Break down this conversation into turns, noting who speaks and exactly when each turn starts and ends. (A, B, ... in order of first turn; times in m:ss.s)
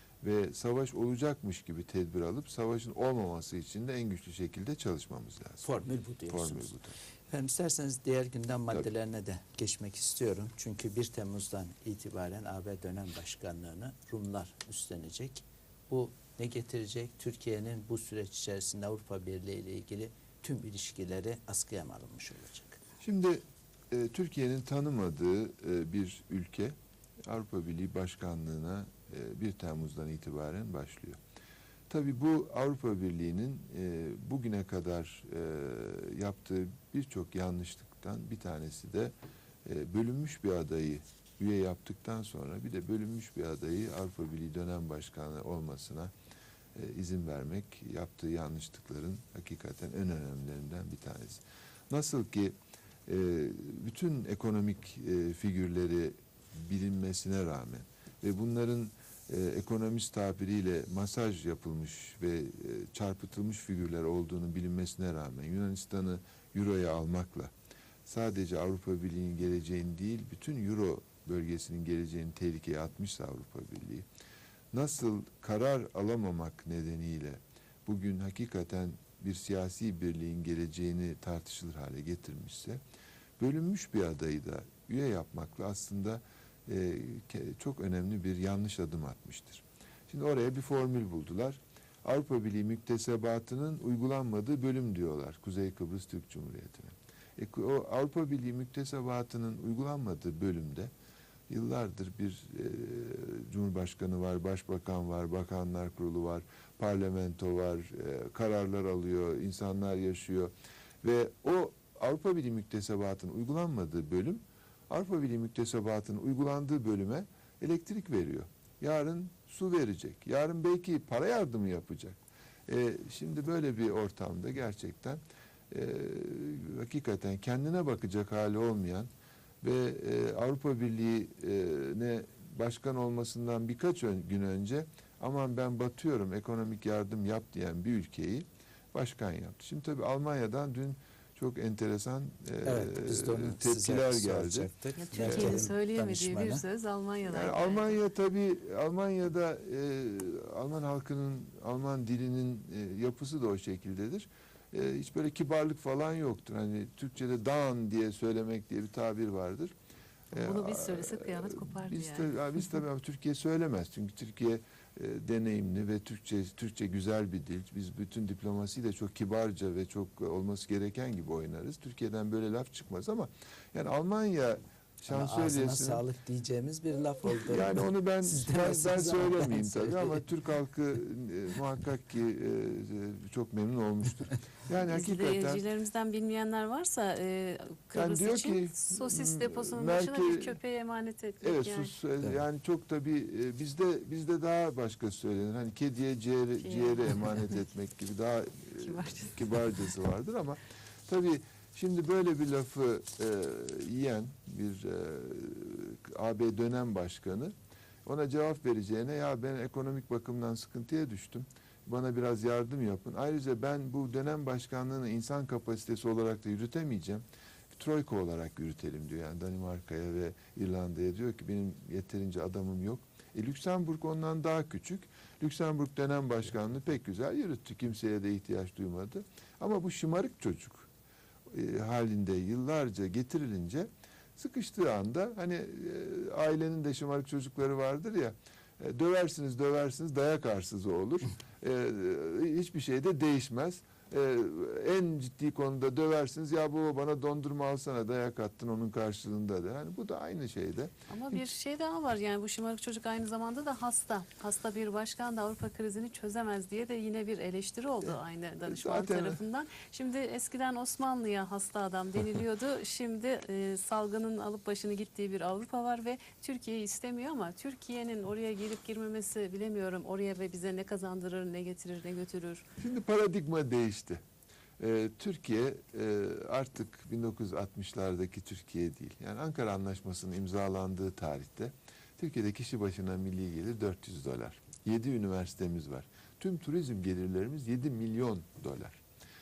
0:00.2-0:07.0 A
0:05.6-0:06.8 B
0:07.3-0:22.8 B
0:23.0-0:26.7 A
0:27.3-0:31.2 A
0:31.9-0:39.1 A
0:39.6-0:46.1 A
0:46.8-1:07.5 A
1:08.1-1:14.1 A
1:14.7-1:22.8 A
1:23.4-1:40.9 A
1:41.5-2:09.1 A
2:09.6-2:25.7 A
2:22.6-2:26.6 B
2:25.0-2:28.0 C
2:27.3-2:39.7 A
2:40.3-2:56.0 A
2:40.3-2:42.3 C
2:55.1-3:00.2 B
2:57.4-3:05.6 A
3:04.8-3:11.9 C
3:07.9-3:10.6 A
3:11.4-3:27.5 A
3:16.6-3:17.5 C
3:18.8-3:19.8 C
3:28.1-3:50.9 A
3:51.5-4:10.9 A
4:11.1-4:32.6 C
4:18.0-4:19.4 A
4:32.8-4:34.2 A
4:34.8-4:49.0 A